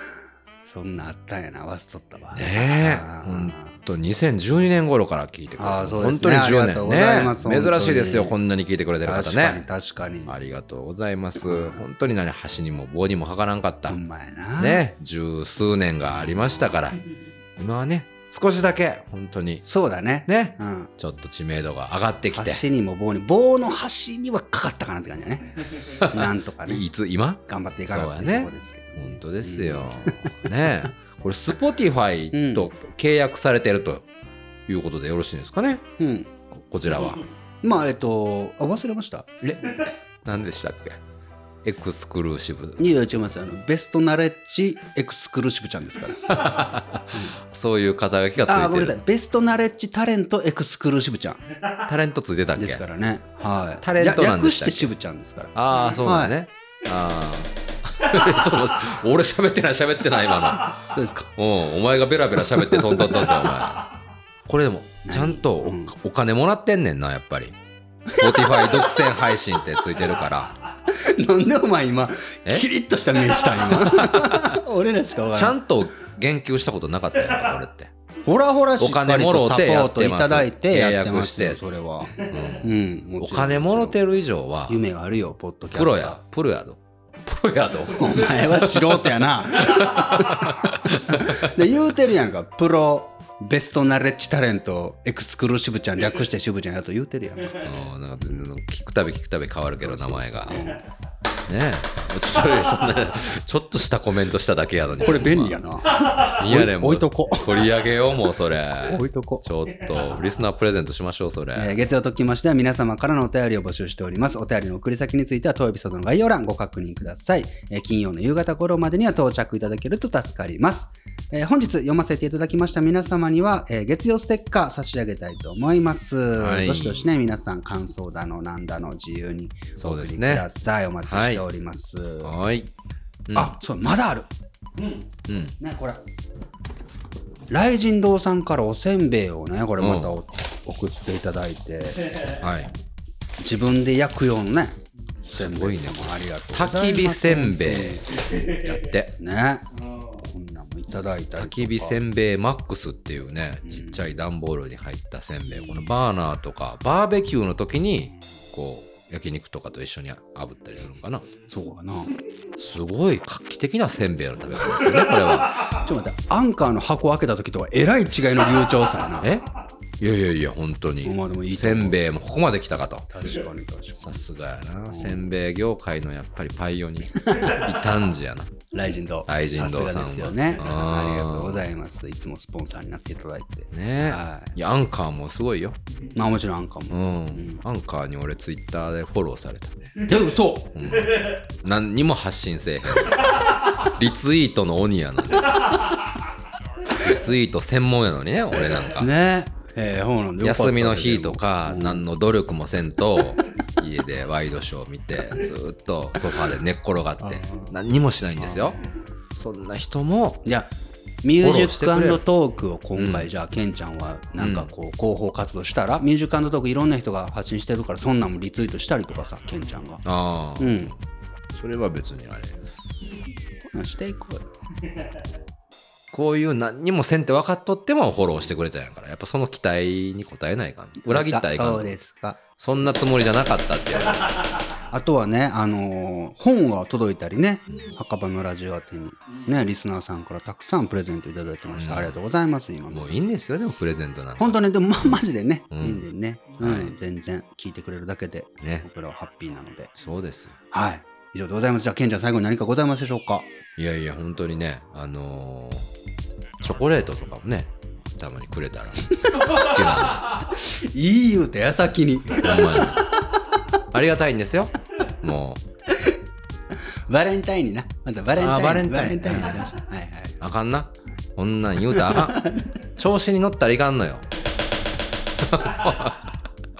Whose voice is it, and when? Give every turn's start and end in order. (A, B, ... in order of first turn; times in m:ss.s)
0:00.6-0:03.8 A
0:02.3-0:09.6 B
0:05.6-0:08.4 A
0:09.0-0:10.3 A
0:10.2-0:14.0 B
0:11.4-0:11.8 A
0:13.9-0:14.8 A
0:14.6-0:17.0 B
0:17.6-0:19.6 B
0:19.6-0:20.9 A
0:20.3-0:22.6 B
0:22.3-0:26.8 A
0:26.0-0:34.0 B
0:27.5-0:30.3 A
0:32.3-0:32.7 A
0:34.7-0:35.8 B
0:36.0-0:36.3 A
0:36.5-0:37.2 B
0:37.6-0:39.8 A
0:40.2-0:41.0 B
0:41.6-0:42.9 B
0:42.8-0:46.5 A
0:46.3-0:49.0 B
0:48.4-0:51.4 A
0:51.8-0:52.8 B
0:52.6-0:56.3 A
0:53.8-0:54.9 B
0:55.5-1:03.9 B
1:00.9-1:01.3 A
1:02.5-1:03.3 A
1:04.4-1:07.6 B
1:05.0-1:05.9 A
1:08.1-1:08.5 A
1:08.1-1:10.5 B
1:10.9-1:15.6 A
1:13.7-1:14.6 B
1:15.3-1:17.9 B
1:18.2-1:24.0 A
1:18.8-1:21.6 B
1:22.1-1:24.8 B
1:24.7-1:26.2 A
1:25.7-1:31.6 B
1:27.9-1:37.6 A
1:37.6-1:40.7 B
1:39.8-1:40.8 A
1:41.5-1:45.6 B
1:45.0-1:47.6 A
1:46.2-1:51.8 B
1:48.8-1:49.4 A
1:51.5-2:12.3 A
2:06.4-2:07.1 B
2:09.8-2:10.5 B
2:11.1-2:11.4 B
2:12.2-2:12.7 B
2:13.3-2:13.6 B
2:13.3-2:14.3 A
2:14.8-2:15.0 C
2:15.3-2:15.6 B
2:15.6-2:16.0 A
2:17.5-2:22.3 A
2:19.8-2:20.2 B
2:22.0-2:22.3 C
2:22.4-2:22.7 B
2:23.4-2:28.1 A
2:25.3-2:29.1 B
2:28.2-2:28.6 C
2:29.2-2:29.6 A
2:29.7-2:30.2 C
2:30.2-2:32.0 A
2:31.4-2:41.3 B
2:33.6-2:34.0 A
2:41.5-2:42.2 A
2:42.6-2:45.7 B
2:44.8-2:45.4 C
2:45.8-2:49.3 A
2:49.2-2:49.4 B
2:50.0-2:53.1 B
2:51.0-2:52.0 A
2:53.1-2:54.2 A
2:54.0-2:58.6 B
2:54.9-2:55.3 A
2:57.2-2:57.6 A
2:58.7-3:04.5 A
2:59.2-3:01.7 B
3:03.7-3:05.8 B
3:06.1-3:07.6 A
3:06.9-3:10.0 B
3:10.0-3:10.7 A
3:10.7-3:15.8 B
3:10.9-3:11.3 C
3:17.0-3:19.1 B
3:19.0-3:22.0 A
3:20.4-3:28.8 B
3:27.2-3:27.7 A
3:29.3-3:30.4 B
3:30.4-3:30.7 A
3:31.2-3:40.0 A
3:31.4-3:32.2 B
3:33.0-3:33.3 B
3:34.4-3:34.7 B
3:40.0-3:41.0 B
3:40.6-3:40.9 A
3:41.5-3:42.6 B
3:43.7-3:44.4 A
3:46.1-3:52.0 B
3:51.0-3:52.4 A
3:52.6-3:54.5 B
3:54.1-3:54.6 C
3:54.9-4:03.1 A
4:01.7-4:02.2 B
4:02.9-4:05.2 B
4:04.4-4:09.9 A
4:05.7-4:06.0 B
4:06.6-4:06.9 B
4:10.0-4:10.6 B
4:10.7-4:13.5 A
4:13.8-4:15.9 B
4:16.6-4:20.4 B
4:19.2-4:19.6 A
4:20.4-4:23.0 A
4:22.4-4:23.0 B
4:23.9-4:25.6 B
4:27.1-4:30.4 A
4:28.4-4:29.7 B
4:30.4-4:34.2 B
4:31.8-4:32.7 A
4:35.4-4:36.3 B
4:35.8-4:36.1 C